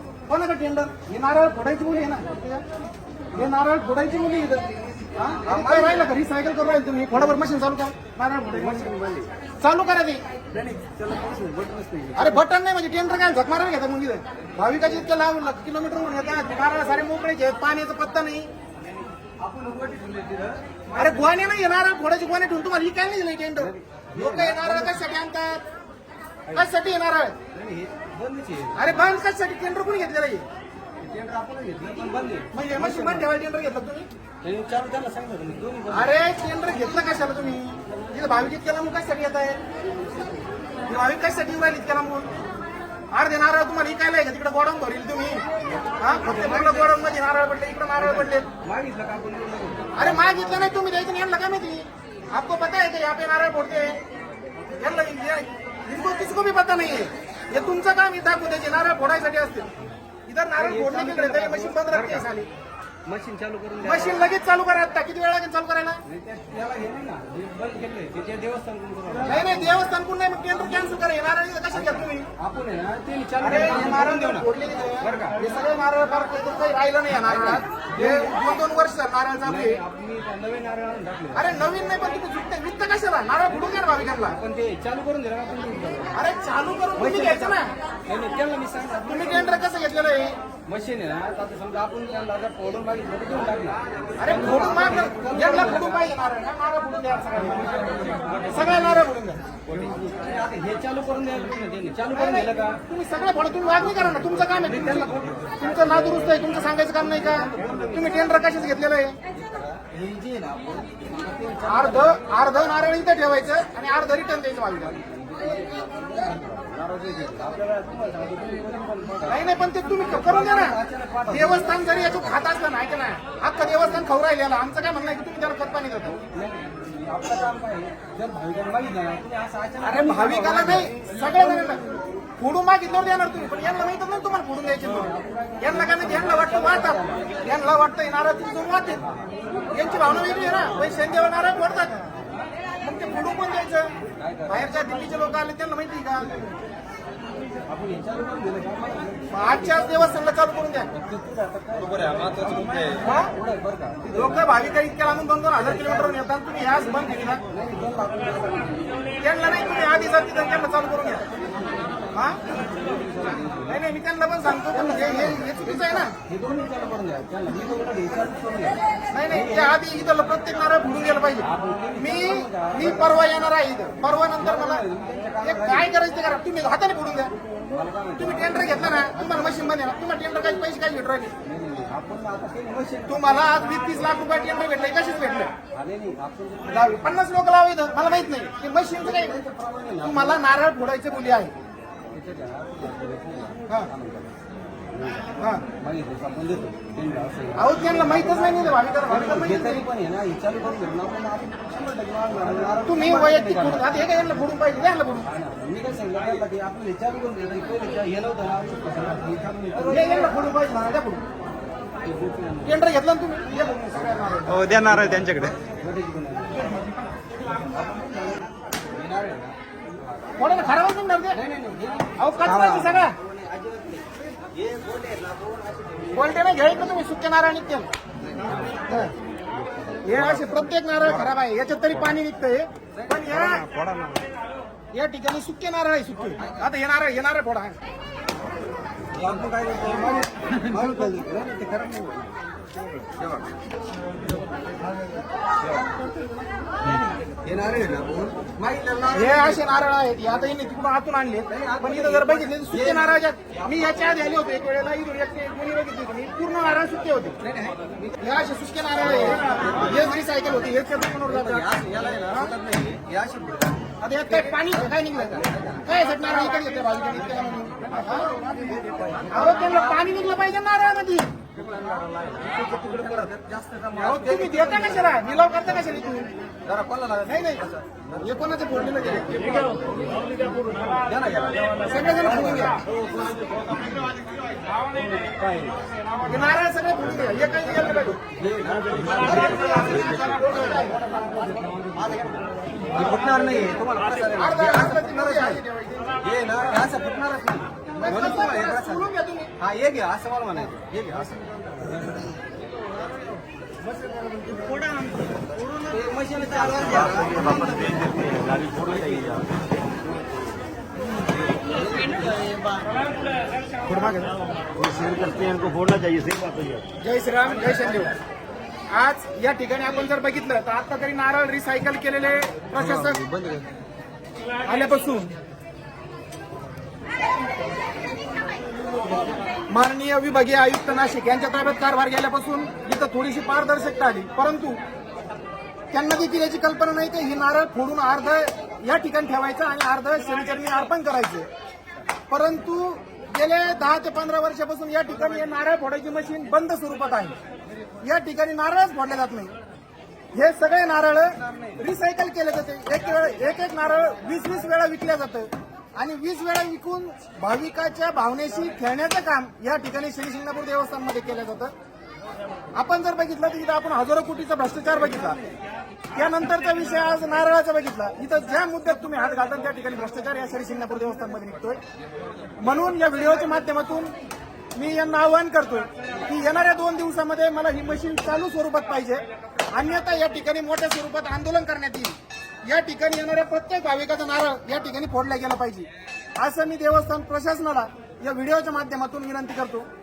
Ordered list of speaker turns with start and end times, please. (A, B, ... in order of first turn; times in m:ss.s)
0:00.3-0:02.6 A
0:03.3-0:04.7 A
0:05.0-0:06.1 B
0:05.4-0:08.9 A
0:08.5-0:09.3 B
0:09.6-0:10.2 A
0:10.5-0:12.4 B
0:12.2-0:18.5 A
0:19.4-0:21.4 B
0:20.9-0:25.6 A
0:23.6-0:25.0 B
0:26.5-0:27.4 A
0:27.5-0:28.9 B
0:28.8-0:30.5 A
0:31.0-0:33.3 B
0:32.5-0:34.1 A
0:34.4-0:36.2 B
0:35.9-0:39.6 A
0:40.9-0:42.3 A
0:43.1-0:45.4 A
0:46.0-0:48.5 A
0:46.1-0:47.0 B
0:48.0-0:50.7 B
0:50.0-0:54.0 A
0:54.8-0:59.7 A
1:00.3-1:02.5 A
1:00.6-1:02.3 B
1:03.1-1:04.3 B
1:03.8-1:06.0 A
1:06.1-1:09.8 B
1:09.2-1:12.3 A
1:11.7-1:15.4 B
1:13.4-1:19.8 A
1:17.2-1:18.6 B
1:19.4-1:21.7 B
1:21.3-1:24.4 A
1:23.5-1:26.2 B
1:26.1-1:27.7 A
1:27.0-1:29.6 B
1:29.0-1:30.4 A
1:30.7-1:36.1 B
1:34.2-1:37.7 A
1:37.4-1:39.0 B
1:38.5-1:39.4 A
1:39.7-1:42.8 B
1:42.1-1:49.2 A
1:44.5-1:46.4 B
1:47.2-1:48.5 B
1:49.3-1:52.2 B
1:51.6-1:55.0 A
1:54.8-2:02.4 B
1:59.3-2:06.2 A
2:06.3-2:11.8 B
2:09.8-2:11.8 A
2:12.4-2:19.0 A
2:14.8-2:17.3 B
2:19.1-2:21.0 B
2:19.7-2:22.0 A
2:22.8-2:23.9 A
2:24.2-2:24.8 B
2:24.5-2:26.4 A
2:27.7-2:30.2 B
2:29.3-2:30.9 A
2:30.9-2:34.6 B
2:33.0-2:33.3 A
2:34.1-2:37.4 A
2:37.5-2:39.1 B
2:39.2-2:41.3 A
2:42.5-2:43.8 B
2:43.7-2:46.2 A
2:44.7-2:49.8 B
2:49.1-2:54.8 A
2:51.4-2:53.3 B
2:54.4-2:55.9 B
2:55.4-2:57.3 A
2:57.7-2:59.8 B
2:58.2-3:01.3 A
3:01.4-3:03.6 B
3:03.1-3:05.5 A
3:05.7-3:07.2 B
3:06.7-3:09.4 A
3:09.0-3:10.4 B
3:10.0-3:11.5 A
3:12.1-3:14.3 B
3:14.9-3:24.0 B
3:15.4-3:15.6 A
3:17.6-3:19.8 A
3:22.8-3:25.3 A
3:25.2-3:30.4 B
3:29.9-3:31.2 A
3:32.0-3:32.8 B
3:32.6-3:34.6 A
3:33.6-3:36.7 B
3:34.5-3:35.6 C
3:37.6-3:40.6 B
3:40.4-3:41.4 A
3:41.3-3:46.1 B
3:42.2-3:43.2 A
3:46.1-3:47.9 A
3:48.3-3:49.0 B
3:49.6-3:50.7 B
3:50.0-3:53.7 A
3:53.0-3:54.2 B
3:53.5-3:54.2 C
3:54.9-3:57.8 A
3:59.1-4:02.4 B
4:03.2-4:03.5 B
4:07.3-4:09.7 B
4:09.1-4:17.4 A
4:11.5-4:14.1 B
4:17.4-4:18.3 B
4:18.2-4:21.7 A
4:19.0-4:20.0 B
4:21.2-4:25.9 B
4:24.0-4:28.3 A
4:28.0-4:30.1 B
4:29.3-4:31.3 A
4:31.5-4:35.2 B
4:34.0-4:36.3 A
4:36.6-4:38.0 B
4:37.2-4:39.7 A
4:39.3-4:43.8 B
4:41.8-4:42.8 A
4:44.9-4:45.8 B
4:46.2-4:48.2 A
4:48.4-4:55.6 B
4:49.2-4:51.0 A
4:54.3-4:56.2 A
4:56.2-5:02.2 B
4:58.0-4:59.5 A
5:04.2-5:04.9 B
5:05.5-5:09.3 B
5:07.0-5:09.6 C
5:11.6-5:13.0 B
5:13.9-5:14.3 A
5:14.7-5:16.9 C
5:17.0-5:18.2 A
5:18.9-5:23.3 A
5:23.1-5:23.6 C
5:24.6-5:25.3 A
5:29.7-5:34.8 A
5:35.9-5:41.5 A
5:42.3-5:47.4 A
5:48.0-5:49.6 A
5:50.3-6:01.7 A
5:51.4-5:51.8 B
6:02.8-6:05.4 A
6:06.2-6:11.8 A
6:12.6-6:14.1 A
6:14.8-6:22.2 A
6:22.7-6:25.9 A
6:26.4-6:29.9 A